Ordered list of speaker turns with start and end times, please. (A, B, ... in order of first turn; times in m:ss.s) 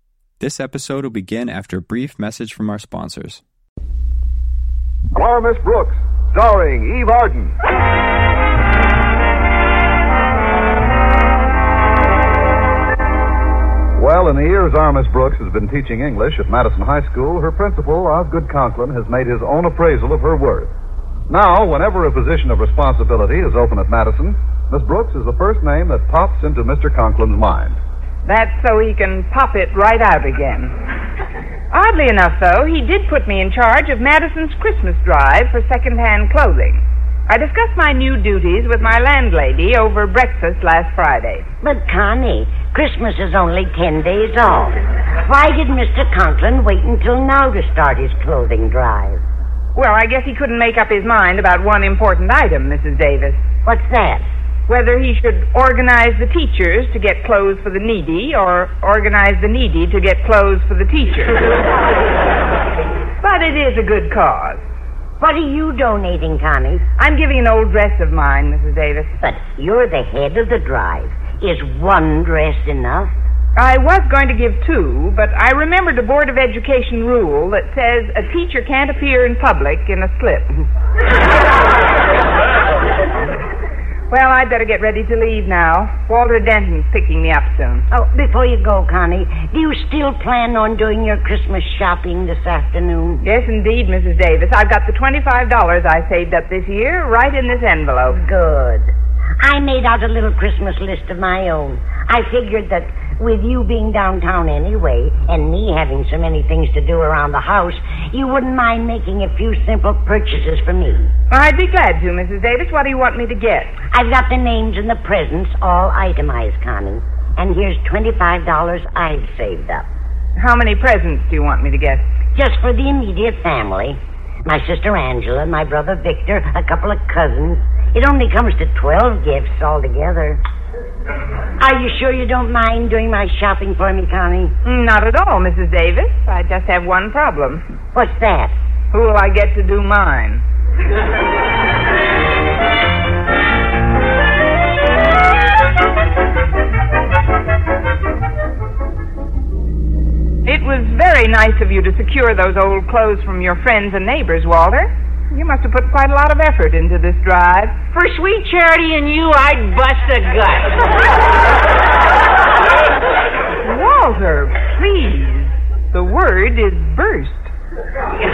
0:00.4-0:03.4 A
0:05.1-0:07.5 B
0:14.0-0:20.7 B
0:21.3-0:27.8 B
0:28.2-0:30.7 C
0:31.7-0:41.4 C
0:41.6-0:49.2 D
0:49.7-0:53.4 C
0:53.6-0:54.2 D
0:54.7-1:01.4 C
1:03.2-1:04.6 C
1:05.2-1:06.8 D
1:07.0-1:09.2 C
1:09.2-1:13.1 D
1:13.6-1:20.7 C
1:24.1-1:27.8 C
1:27.9-1:33.2 D
1:33.2-1:38.2 C
1:38.2-1:51.1 D
1:51.3-1:53.7 C
1:53.9-1:59.9 D
2:00.4-2:02.0 C
2:02.4-2:10.4 D
2:11.6-2:14.5 D
2:14.6-2:17.6 C
2:17.9-2:18.5 D
2:18.9-2:20.4 C
2:30.4-2:37.7 C
2:37.9-2:40.7 E
2:43.6-2:47.5 C